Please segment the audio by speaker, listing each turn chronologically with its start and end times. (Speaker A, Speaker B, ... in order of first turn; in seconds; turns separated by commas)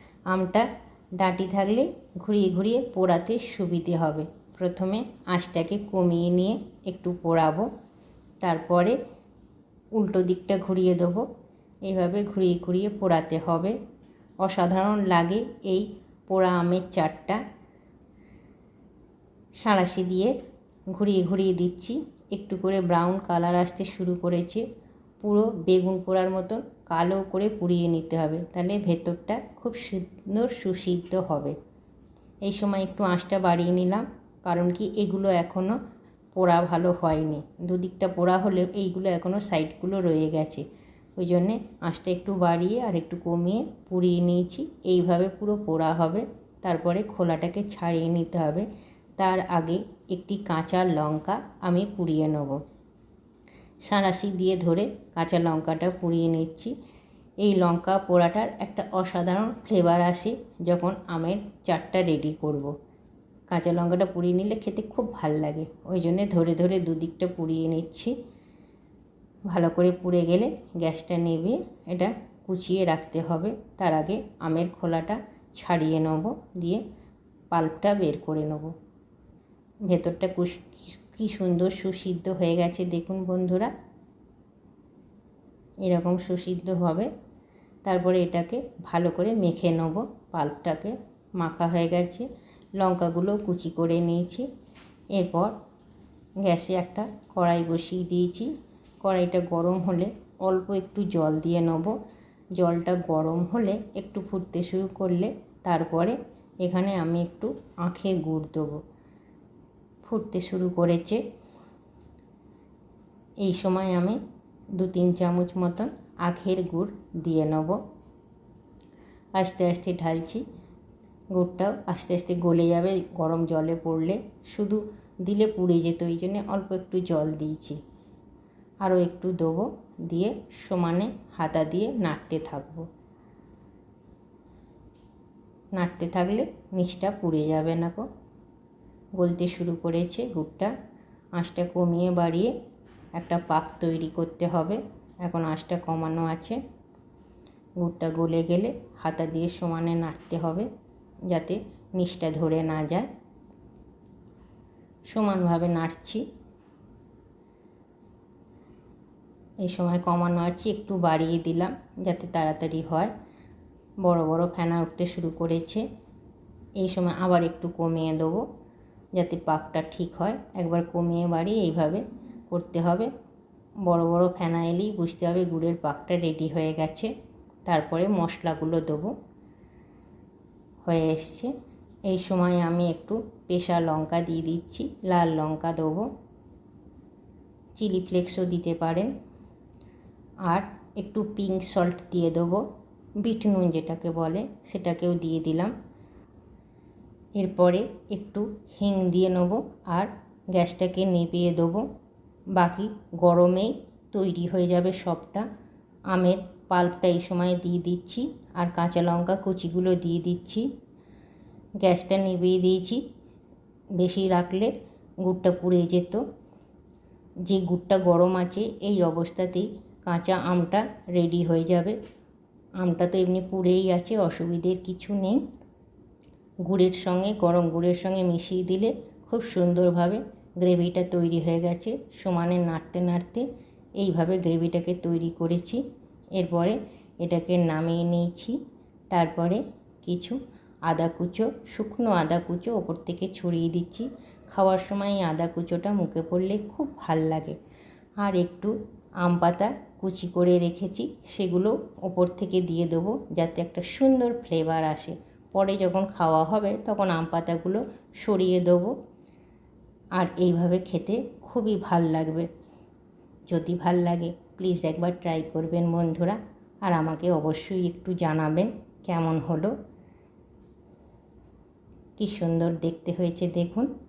Speaker A: 0.3-0.7, Speaker A: 1.2-7.7, Speaker A: 8.4-9.0, Speaker A: 10.0-11.3, Speaker A: 11.9-13.8, Speaker A: 14.4-17.4, Speaker A: 19.6-20.3, Speaker A: 20.9-24.6, Speaker A: 25.2-31.6, Speaker A: 32.5-35.8, Speaker A: 36.3-40.7, Speaker A: 41.2-48.7, Speaker A: 49.2-52.6, Speaker A: 53.9-56.7, Speaker A: 57.4-62.7, Speaker A: 63.5-68.2, Speaker A: 69.5-76.8, Speaker A: 77.5-78.7, Speaker A: 79.9-83.7, Speaker A: 85.8-87.1, Speaker A: 87.8-92.3, Speaker A: 92.8-94.5, Speaker A: 95.2-95.5, Speaker A: 96.4-101.9, Speaker A: 102.6-108.8, Speaker A: 110.0-111.2, Speaker A: 113.4-114.2, Speaker A: 114.8-117.8, Speaker A: 119.4-120.4, Speaker A: 121.3-127.8, Speaker A: 128.8-132.9, Speaker A: 135.8-138.1, Speaker A: 139.2-140.7, Speaker A: 141.4-142.5, Speaker A: 143.2-146.6, Speaker A: 147.8-150.7, Speaker A: 151.3-153.1, Speaker A: 155.1-156.2, Speaker A: 159.6-163.1, Speaker A: 164.0-165.8, Speaker A: 166.8-168.5, Speaker A: 169.2-173.1, Speaker A: 173.9-177.1, Speaker A: 177.7-179.1, Speaker A: 180.8-181.5, Speaker A: 182.1-186.1, Speaker A: 187.8-189.1, Speaker A: 190.5-192.7, Speaker A: 193.2-195.7, Speaker A: 197.4-201.9, Speaker A: 202.6-205.5, Speaker A: 206.1-210.7, Speaker A: 211.8-213.0, Speaker A: 214.0-214.7, Speaker A: 215.2-216.2, Speaker A: 217.5-222.0, Speaker A: 222.8-225.4, Speaker A: 226.7-233.5, Speaker A: 234.0-235.8, Speaker A: 236.4-238.6, Speaker A: 239.1-247.6, Speaker A: 248.2-259.0, Speaker A: 260.2-262.5, Speaker A: 263.5-269.7, Speaker A: 272.2-273.9